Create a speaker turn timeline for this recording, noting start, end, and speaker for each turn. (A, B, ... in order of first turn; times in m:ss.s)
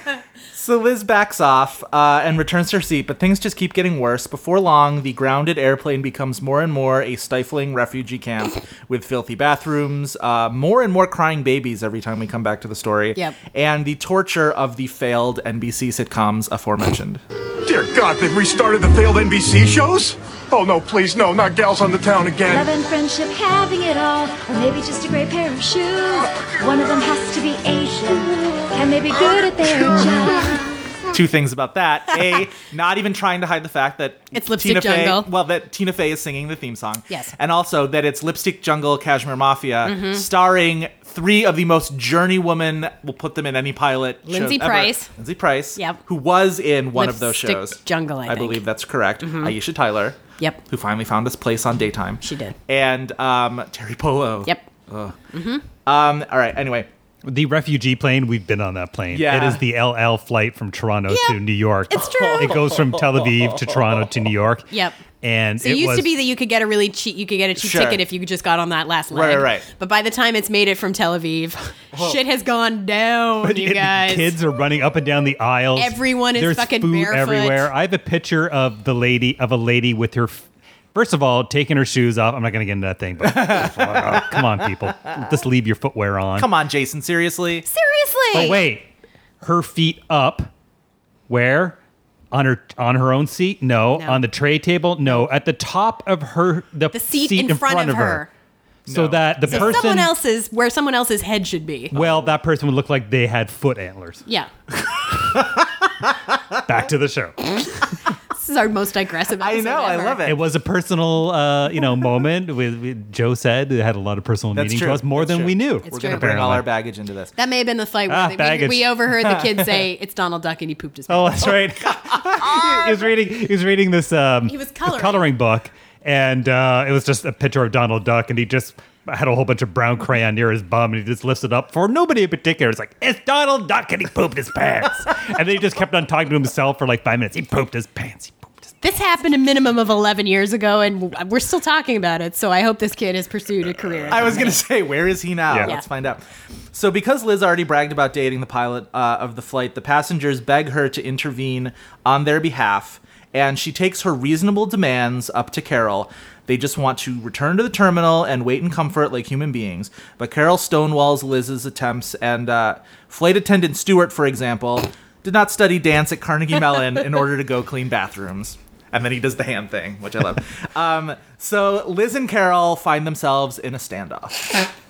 0:00.5-0:17.2 A
0:17.6-0:22.7 B
0:22.4-0:30.6 C
0:31.1-0:55.1 A
0:34.3-0:35.3 D
0:39.8-0:40.2 D
0:44.3-0:45.1 D
0:46.9-0:48.6 D
0:49.2-0:49.6 D
0:52.2-0:52.6 D
0:55.3-0:55.6 D
0:55.8-0:56.9 A
0:57.2-1:04.6 E
0:59.1-0:59.6 A
1:01.1-1:02.6 D
1:02.1-1:04.0 A
1:04.7-1:05.0 D
1:05.2-1:06.1 E
1:05.6-1:14.4 D
1:07.6-1:08.0 A
1:09.1-1:09.6 A
1:11.9-1:12.2 A
1:13.4-1:26.5 E
1:15.7-1:17.7 D
1:23.2-1:24.3 A
1:26.4-1:27.6 A
1:27.7-1:28.6 D
1:28.3-1:28.8 E
1:29.4-1:30.5 E
1:31.3-1:31.8 E
1:32.3-1:38.2 E
1:33.9-1:34.2 D
1:36.9-1:38.3 D
1:38.9-1:39.8 A
1:38.9-1:40.1 E
1:39.4-1:42.0 D
1:41.9-1:44.2 E
1:46.6-1:47.7 E
1:48.3-1:50.2 D
1:49.4-1:50.4 A
1:50.2-1:56.7 E
1:54.5-1:57.3 A
1:55.8-1:56.3 D
1:57.4-2:01.6 D
1:58.1-1:59.0 E
1:59.3-1:59.7 A
2:01.1-2:18.5 E
2:02.4-2:03.0 D
2:04.4-2:05.3 D
2:18.8-2:24.6 D
2:24.1-2:26.2 A
2:25.5-2:25.7 E
2:26.7-2:54.3 A